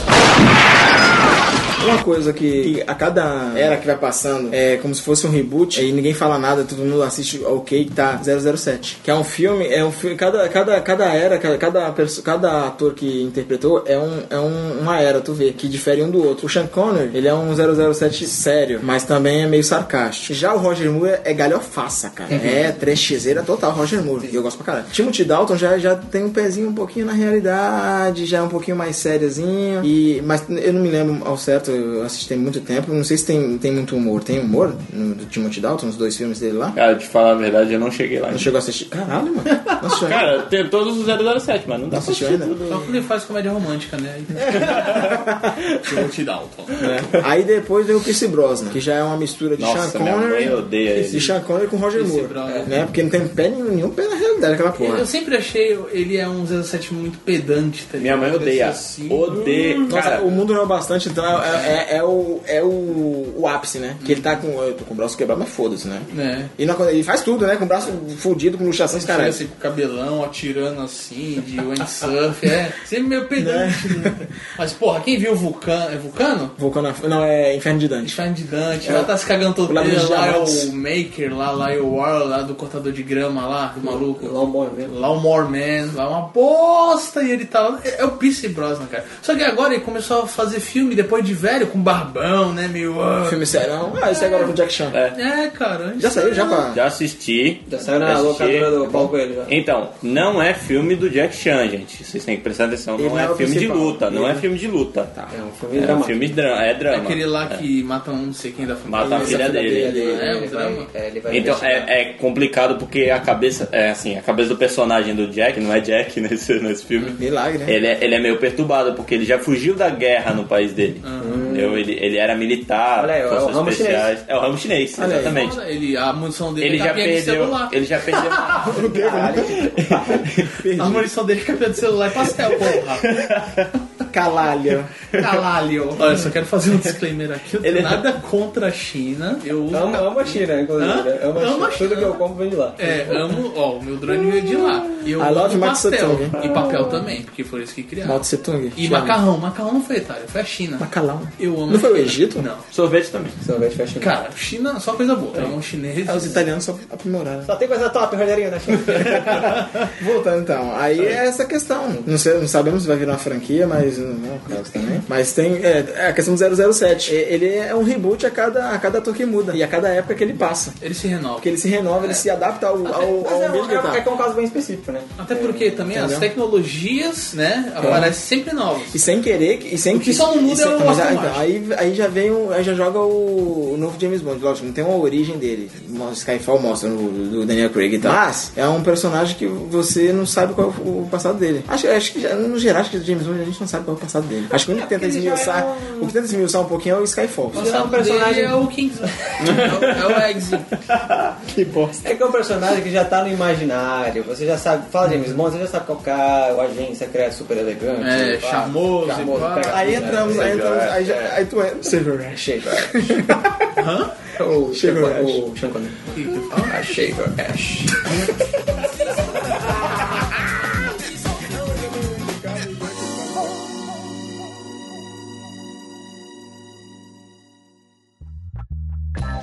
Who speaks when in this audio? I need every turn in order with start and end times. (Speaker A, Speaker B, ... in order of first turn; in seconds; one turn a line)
Speaker A: 1.8-36.8
Speaker B: 22.3-22.6
Speaker C: 36.8-38.5
Speaker A: 38.3-40.3
Speaker C: 40.0-42.8
Speaker A: 41.9-42.6
Speaker D: 42.7-47.0
Speaker A: 44.5-45.6
Speaker C: 44.5-45.1
Speaker A: 46.8-55.1
Speaker C: 49.6-51.3
Speaker D: 51.0-51.3
Speaker D: 51.9-52.7
Speaker D: 54.8-59.8
Speaker C: 58.0-60.4
Speaker A: 59.9-69.4
Speaker D: 61.5-61.8
Speaker D: 64.0-64.4
Speaker D: 66.1-66.5
Speaker D: 68.9-76.5
Speaker A: 73.4-74.3
Speaker A: 76.6-78.2
Speaker D: 78.0-94.5
Speaker A: 79.7-80.7
Speaker B: 83.8-84.9
Speaker A: 93.2-95.0
Speaker C: 94.9-95.2
Speaker D: 95.1-96.7
Speaker A: 96.0-96.8
Speaker C: 96.7-105.1
Speaker B: 97.7-99.5
Speaker A: 103.0-104.5
Speaker B: 105.3-106.3
Speaker C: 105.8-107.6
Speaker D: 106.9-110.9
Speaker C: 108.8-110.0
Speaker A: 109.0-110.3
Speaker B: 109.2-111.9
Speaker C: 111.3-125.6
Speaker A: 117.2-117.8
Speaker D: 121.0-121.5
Speaker B: 121.2-121.9
Speaker B: 123.0-124.1
Speaker A: 125.0-125.4
Speaker D: 125.1-128.7
Speaker C: 126.6-130.6
Speaker A: 128.6-131.1
Speaker B: 128.8-130.2
Speaker D: 130.7-133.2
Speaker C: 132.9-133.7
Speaker A: 134.1-134.9
Speaker C: 135.1-135.4
Speaker D: 135.2-142.2
Speaker C: 137.6-138.1
Speaker B: 139.7-143.3
Speaker D: 142.8-148.2
Speaker A: 144.9-146.4
Speaker A: 148.0-149.2
Speaker D: 148.8-150.9
Speaker A: 150.8-152.5
Speaker D: 151.4-152.7
Speaker C: 152.7-153.4
Speaker B: 153.4-154.1
Speaker D: 154.0-156.5
Speaker A: 156.0-157.5
Speaker B: 157.4-159.5
Speaker A: 159.9-170.8
Speaker B: 164.5-165.0
Speaker D: 170.8-171.6
Speaker A: 171.4-174.0
Speaker B: 173.1-175.9
Speaker D: 175.2-179.0
Speaker A: 175.9-176.3
Speaker A: 177.8-178.2
Speaker A: 178.9-197.7
Speaker D: 179.9-181.5
Speaker B: 194.6-196.1
Speaker B: 197.5-198.6
Speaker D: 197.5-200.8
Speaker C: 199.4-200.1
Speaker A: 201.4-202.2
Speaker B: 202.0-211.4
Speaker D: 208.0-210.2
Speaker A: 209.6-213.8
Speaker C: 210.2-210.9
Speaker B: 212.3-213.3
Speaker D: 213.8-214.2
Speaker B: 214.3-218.1
Speaker A: 214.7-215.5
Speaker D: 216.1-216.9
Speaker A: 218.8-220.7
Speaker D: 218.8-221.6
Speaker A: 221.4-223.6